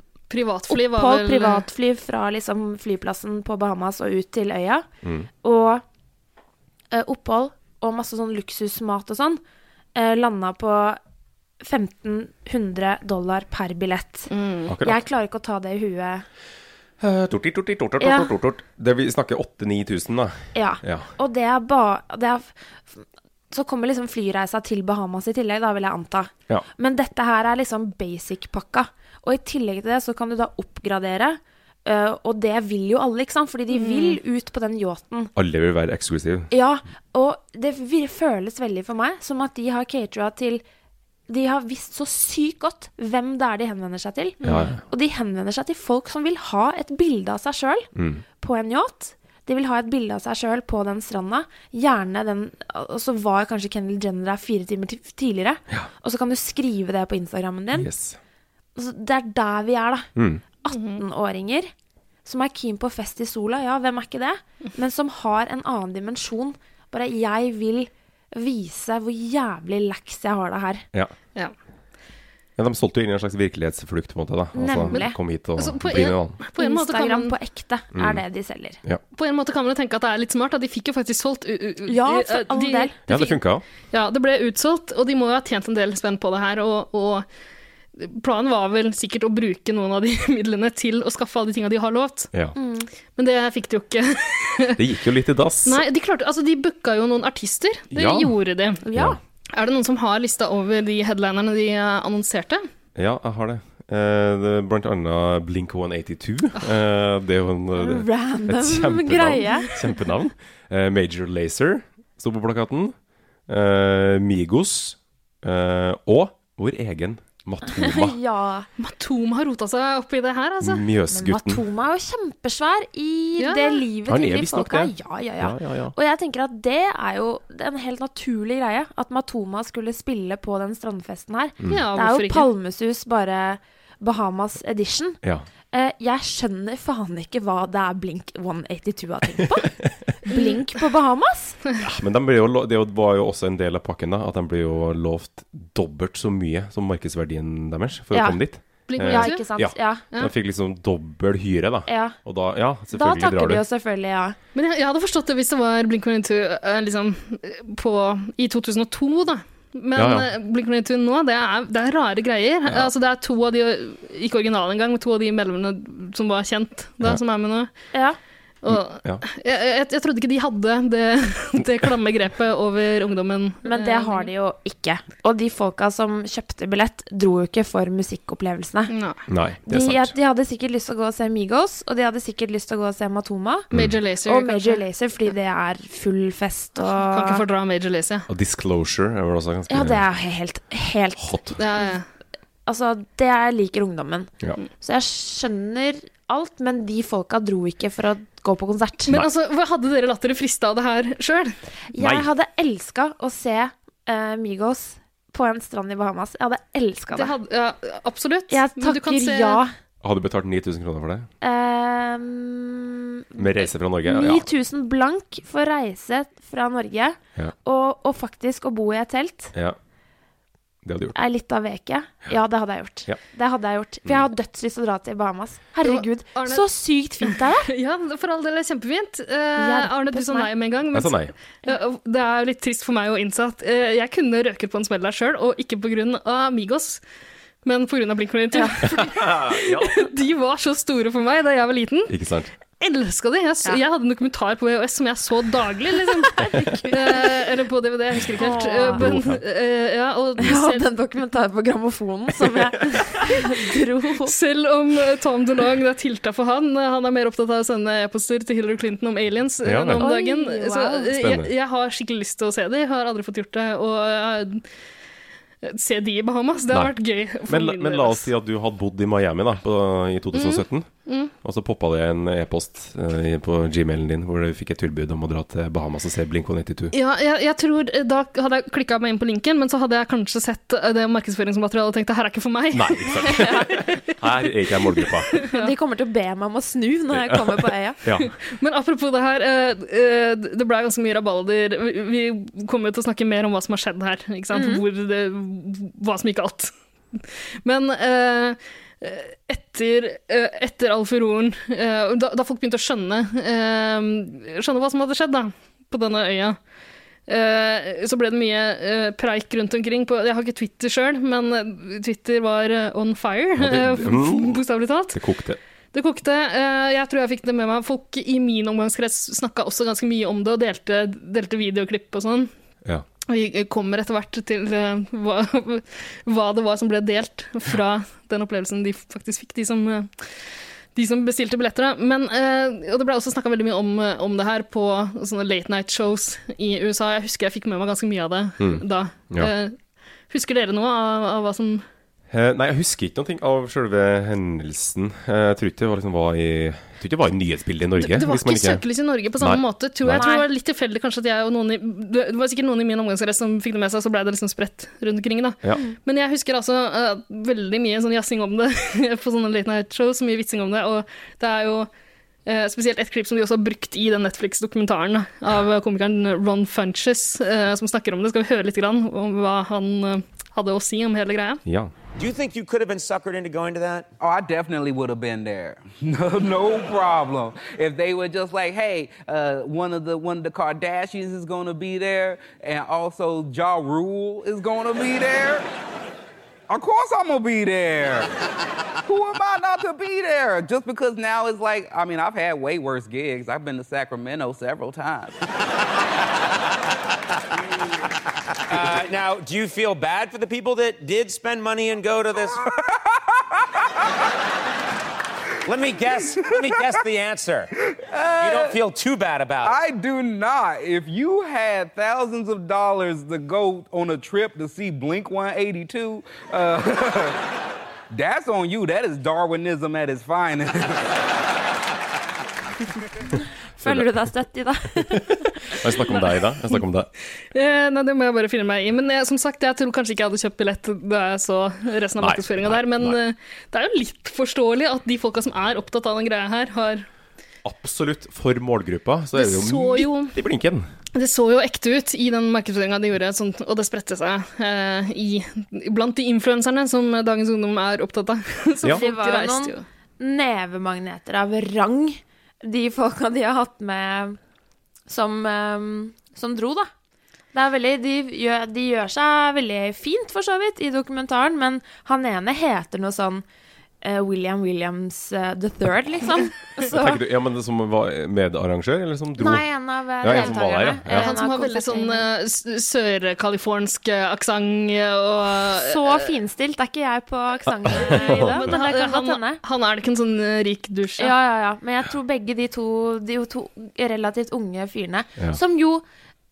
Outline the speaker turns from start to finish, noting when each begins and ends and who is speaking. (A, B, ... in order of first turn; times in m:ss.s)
0:00.3-0:01.6 A
0:00.7-0:04.9 B
0:05.0-0:05.3 C
0:05.4-0:05.8 B
0:06.9-0:09.4 B
0:10.0-0:11.0 B
0:11.6-0:16.2 B
0:14.3-0:14.7 A
0:14.7-0:15.0 C
0:17.0-0:21.1 C
0:18.0-0:18.3 B
0:20.5-0:35.3 B
0:33.7-0:34.2 A
0:35.4-0:36.5 C
0:36.5-0:40.6 B
0:41.3-0:57.9 B
0:44.4-0:44.7 A
0:44.4-0:44.8 C
0:48.0-0:48.2 C
0:57.7-0:58.2 C
0:58.8-1:00.1 B
1:00.2-1:00.4 C
1:00.6-1:01.7 B
1:00.7-1:01.0 A
1:02.2-1:10.8 B
1:12.6-1:16.4 C
1:14.6-1:15.2 B
1:14.9-1:17.3 A
1:16.6-1:18.8 B
1:18.0-1:18.2 C
1:19.1-1:23.3 A
1:21.9-1:23.1 B
1:23.1-1:23.6 C
1:23.9-1:27.3 A
1:28.0-1:32.3 A
1:32.6-1:32.9 B
1:33.1-1:34.8 A
1:34.8-1:35.8 C
1:35.7-1:38.8 A
1:37.9-1:38.4 C
1:38.8-1:39.2 B
1:38.9-1:39.2 C
1:39.5-1:42.6 A
1:43.0-1:53.0 C
1:47.8-1:49.8 B
1:53.5-1:58.2 C
1:57.7-1:58.7 B
1:58.8-2:00.8 A
2:00.6-2:01.6 C
2:01.1-2:15.2 B
2:03.4-2:03.8 A
2:04.1-2:05.9 C
2:11.7-2:12.5 A
2:15.7-2:21.6 B
2:20.3-2:20.7 A
2:21.8-2:33.6 C
2:28.1-2:28.4 B
2:28.9-2:29.5 A
2:29.0-2:30.0 B
2:31.9-2:32.2 B
2:32.9-2:34.4 B
2:34.6-2:47.7 A
2:40.0-2:40.3 C
2:48.6-2:54.3 A
2:48.7-2:49.2 C
2:53.6-2:58.9 B
2:58.9-2:59.2 A
2:59.3-3:00.1 C
2:59.7-3:03.7 B
3:03.7-3:04.0 C
3:03.7-3:04.8 A
3:04.2-3:07.4 B
3:06.8-3:08.3 A
3:08.3-3:10.0 C
3:09.7-3:11.8 B
3:11.2-3:11.6 C
3:11.6-3:12.1 A
3:12.7-3:19.2 B
3:19.1-3:21.6 A
3:21.9-3:27.3 B
3:22.0-3:22.3 C
3:27.1-3:29.6 A
3:28.5-3:29.7 B
3:30.0-3:31.3 C
3:31.4-3:39.5 B
3:33.4-3:34.5 C
3:40.8-3:41.2 C
3:41.1-3:47.7 B
3:45.8-3:46.6 A
3:47.2-3:57.0 A
3:49.6-3:50.5 B
3:50.9-3:51.3 C
3:57.6-4:02.1 A
3:58.5-3:59.0 B
3:58.9-4:00.1 C
4:02.1-4:02.5 C
4:02.8-4:10.8 A
4:06.1-4:07.3 B
4:08.4-4:09.1 B
4:08.9-4:09.4 C
4:10.4-4:14.3 B
4:14.2-4:24.7 A
4:19.6-4:20.1 C
4:20.0-4:21.1 B
4:21.1-4:21.5 C
4:25.6-4:28.3 A
4:26.7-4:36.9 C
4:30.3-4:31.3 A
4:36.9-4:44.0 A
4:42.7-4:45.3 C
4:43.2-4:43.8 B
4:45.4-4:45.7 A
4:45.5-4:48.0 B
4:47.1-4:48.3 C
4:48.2-5:06.6 A
4:54.5-4:54.8 B
5:07.3-5:15.2 A
5:13.6-5:14.6 C
5:15.1-5:15.6 C
5:15.9-5:22.5 A
5:23.3-5:39.8 A
5:38.6-5:39.5 C
5:40.3-5:41.9 A
5:42.3-5:48.8 C
5:48.0-6:01.9 A
5:49.4-5:50.3 C
5:50.1-5:50.5 B
6:02.4-6:11.6 A
6:11.6-6:11.9 C
6:12.1-6:14.1 D
6:14.2-6:25.7 E
6:26.7-6:28.3 E
6:29.0-6:35.4 E
6:38.7-6:42.6 D
6:45.7-6:47.7 D
6:46.2-6:46.9 E
6:47.9-6:48.8 E
6:48.4-6:49.8 D
6:49.6-6:57.4 E
6:58.1-7:01.2 E
7:03.8-7:04.1 C
7:03.8-7:05.8 B
7:05.0-7:07.1 C
7:07.4-7:17.1 A
7:12.2-7:13.2 C
7:17.6-7:20.9 C
7:19.4-7:20.4 A
7:21.1-7:29.8 A
7:28.9-7:34.4 B
7:35.1-7:36.9 B
7:37.5-7:43.4 B
7:44.0-7:47.2 B
7:46.9-7:49.7 C
7:49.4-7:52.2 B
7:50.2-7:51.4 C
7:50.3-7:50.6 A
7:51.1-7:56.3 A
7:55.7-7:59.6 B
7:57.9-8:01.3 A
7:57.9-7:58.7 C
8:01.2-8:06.0 B